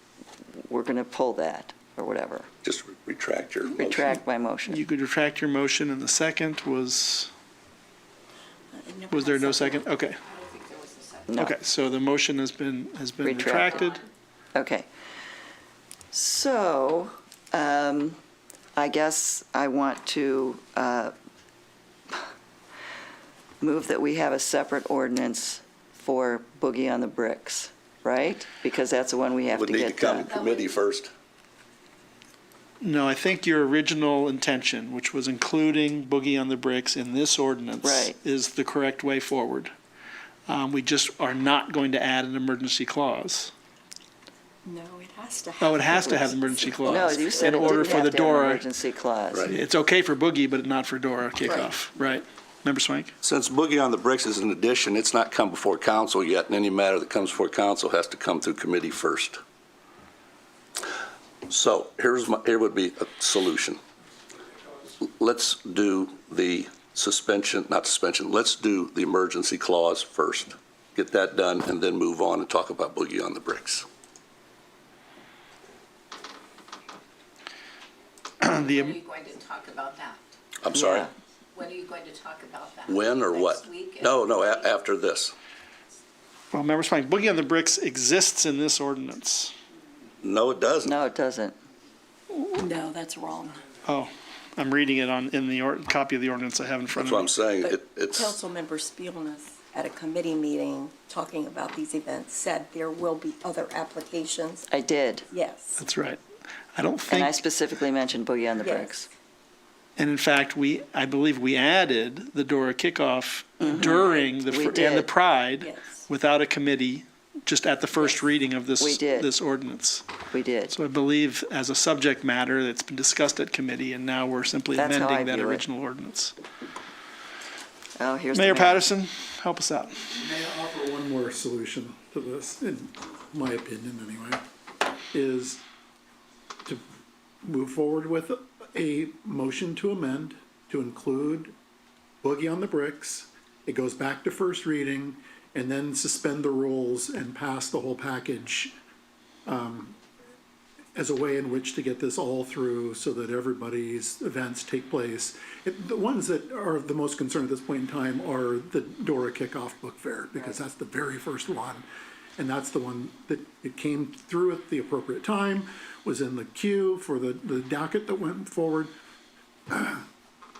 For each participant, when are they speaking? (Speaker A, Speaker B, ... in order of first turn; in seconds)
Speaker A: 0.7-2.5, 3.8-4.8, 11.3-11.6, 13.2-13.9, 14.5-14.9, 16.1-18.2, 18.8-21.1, 23.6-30.3, 37.8-38.1, 46.8-49.5, 80.7-81.1, 90.8-91.6, 104.7-105.2, 107.1-109.1, 113.6-115.1, 118.8-119.3, 120.3-120.7, 124.8-125.6, 128.0-128.9
Speaker B: 2.6-4.0, 29.5-31.1, 46.8-47.1, 49.3-49.6, 53.2-59.4, 61.5-63.8, 65.0-73.8, 80.6-81.1, 82.9-85.3, 90.2-90.9, 96.9-98.3
Speaker C: 4.7-7.3, 9.1-10.2, 11.3-13.9, 32.8-39.7, 40.5-43.5, 45.6-48.6, 49.5-53.1, 78.4-79.0, 86.5-89.5, 93.8-97.3, 105.8-106.2, 106.7-107.4, 110.0-120.0, 120.7-126.3, 128.3-130.1
Speaker D: 8.7-9.9, 44.6-47.9, 51.4-51.7, 92.5-93.7, 97.6-104.7, 105.3-105.8, 108.5-109.0, 113.7-114.3, 115.6-116.1
Speaker E: 10.2-11.5, 13.6-14.0, 30.2-30.8, 78.5-80.3, 81.5-84.8
Speaker F: 130.1-134.4, 135.1-135.6, 137.4-141.6, 142.2-148.8, 149.4-150.0, 150.9-161.8, 162.4-168.9, 169.7-170.1